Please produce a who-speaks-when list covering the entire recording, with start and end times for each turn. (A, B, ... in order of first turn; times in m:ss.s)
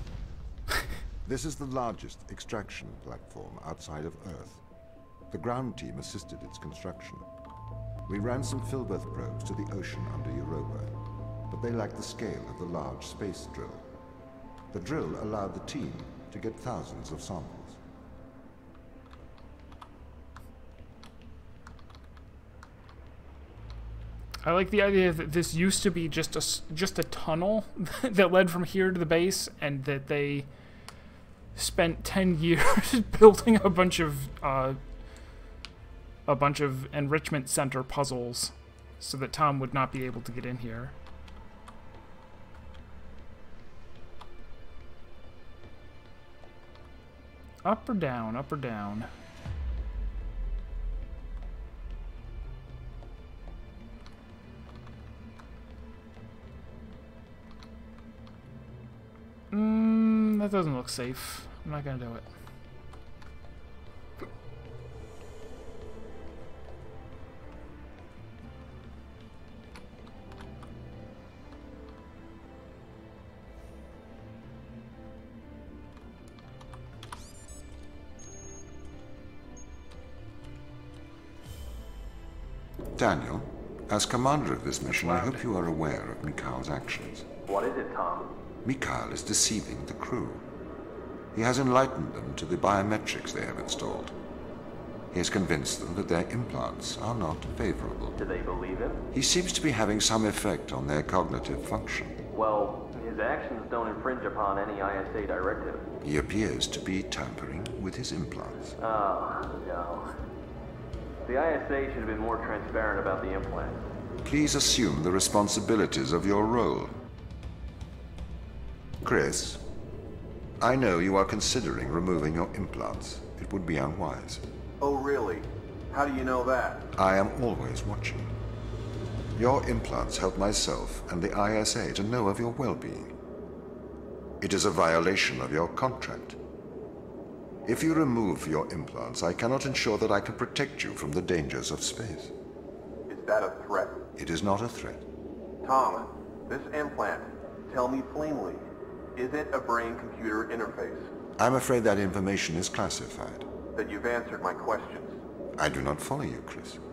0:01.2-0:04.6 A
0:05.3-0:07.3 A
0:08.0-0:11.0 A
0:11.5-0:13.9 A
0:14.7-0:17.8 A
0:24.4-0:30.5 B
0:31.5-0:34.8 B
0:36.2-0:40.9 B
0:47.6-0:49.1 B
0:59.5-1:02.3 B
1:22.9-1:27.3 A
1:27.5-1:28.3 C
1:28.6-1:30.4 A
1:31.3-1:34.2 A
1:35.1-1:38.2 A
1:38.2-1:39.0 C
1:39.1-1:42.2 A
1:42.3-1:45.9 C
1:46.0-1:48.8 A
1:48.8-1:50.2 C
1:51.2-1:53.8 C
1:54.2-1:57.0 A
1:59.0-1:59.6 A
2:00.6-2:04.4 A
2:04.8-2:06.8 D
2:06.9-2:08.3 A
2:09.3-2:13.1 A
2:14.4-2:16.4 A
2:17.6-2:22.3 A
2:23.1-2:24.0 D
2:24.2-2:25.0 A
2:25.6-2:28.6 D
2:29.2-2:31.1 D
2:31.4-2:33.5 A
2:33.7-2:35.2 D
2:35.6-2:36.8 A